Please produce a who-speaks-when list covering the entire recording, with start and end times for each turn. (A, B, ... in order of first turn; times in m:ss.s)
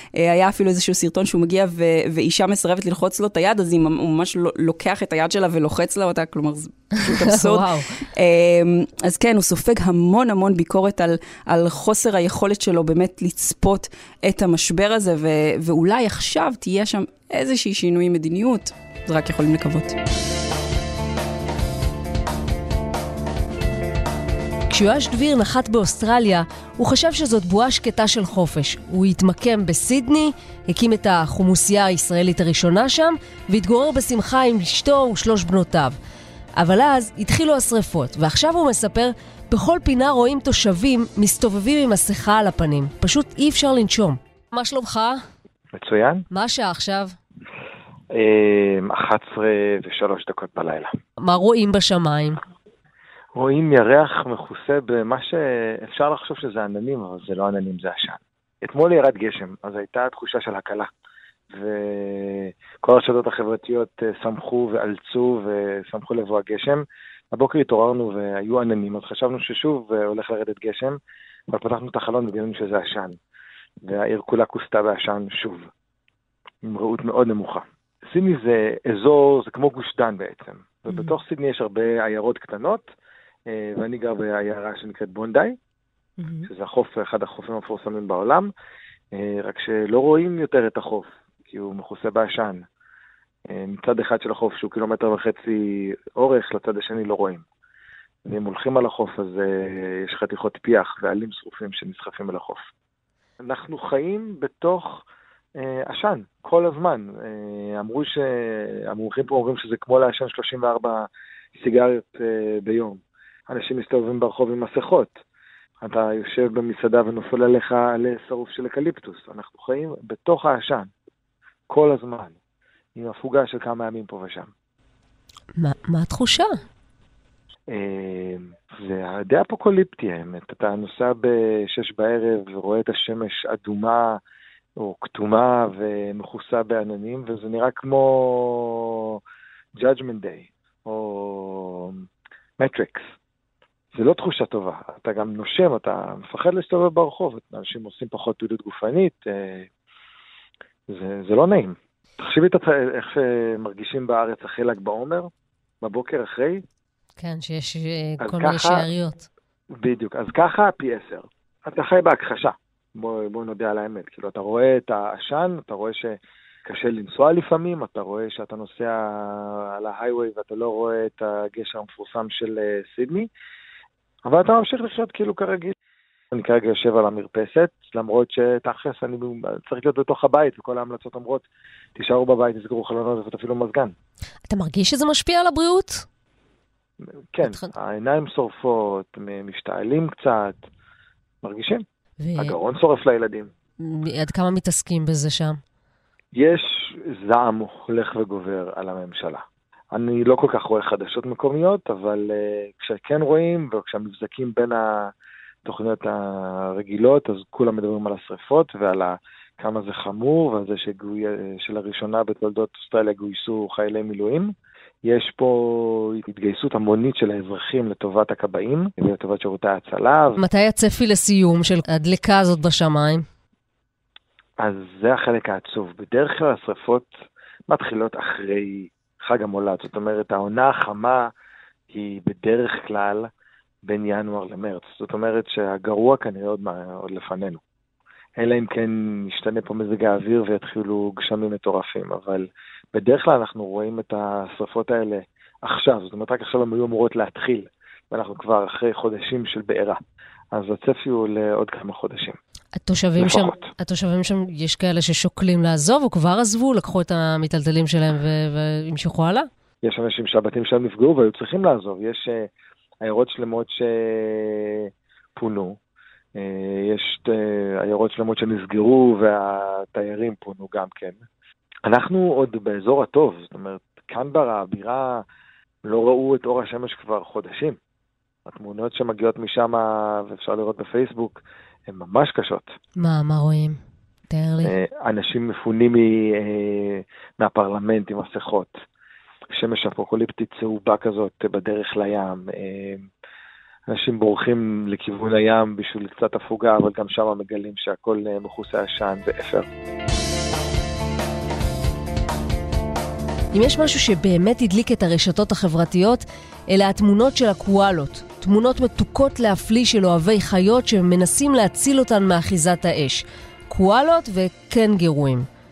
0:00.3-0:20.0 A
0:07.0-0:07.9 B
0:24.7-0:36.0 B
0:36.6-0:45.2 B
0:45.7-0:46.2 C
0:46.3-0:47.2 B
0:48.1-0:50.9 C
0:51.2-0:52.4 B
0:53.3-1:00.9 C
1:01.5-1:11.0 C
1:11.5-1:13.2 C
1:13.8-1:15.7 C
1:16.6-1:22.8 C
1:20.9-1:21.2 B
1:23.5-1:25.5 C
1:26.2-1:26.5 B
1:26.5-1:28.5 C
1:29.1-1:32.6 C
1:33.5-1:37.4 C
1:38.2-1:42.7 C
1:43.4-1:45.0 C
1:45.6-1:55.1 C
1:55.8-2:00.9 C
2:01.7-2:02.4 C
2:02.9-2:04.5 C
2:05.6-2:06.5 B
2:07.7-2:14.2 C
2:14.8-2:19.2 C
2:19.8-2:22.0 C
2:22.6-2:23.0 C
2:23.9-2:29.7 C
2:30.9-2:35.3 C
2:35.8-2:36.6 C
2:37.2-2:39.2 B
2:38.2-2:38.9 C
2:39.8-2:53.3 C
2:54.2-2:55.7 C
2:56.3-3:03.9 C
3:04.5-3:06.0 B
3:07.3-3:10.6 C
3:07.4-3:07.7 B
3:11.4-3:11.8 C
3:12.2-3:12.6 B
3:12.4-3:13.5 C
3:13.8-3:15.6 B
3:16.3-3:25.1 C
3:25.6-3:34.5 C
3:35.0-3:40.4 C
3:40.4-3:43.2 B
3:44.6-3:47.1 C
3:47.7-3:51.3 C
3:51.9-3:53.3 C
3:53.8-3:57.6 C
3:58.4-4:10.0 C
4:10.5-4:12.4 C
4:12.7-4:19.5 B
4:13.2-4:13.7 C
4:19.8-4:22.5 C
4:23.0-4:25.8 C
4:26.4-4:31.2 C
4:31.8-4:35.2 C
4:35.8-4:37.8 C
4:38.4-4:42.7 C
4:43.0-4:44.7 B
4:44.6-4:48.7 C
4:49.5-4:53.1 C
4:53.9-4:59.7 C
5:03.5-5:15.4 B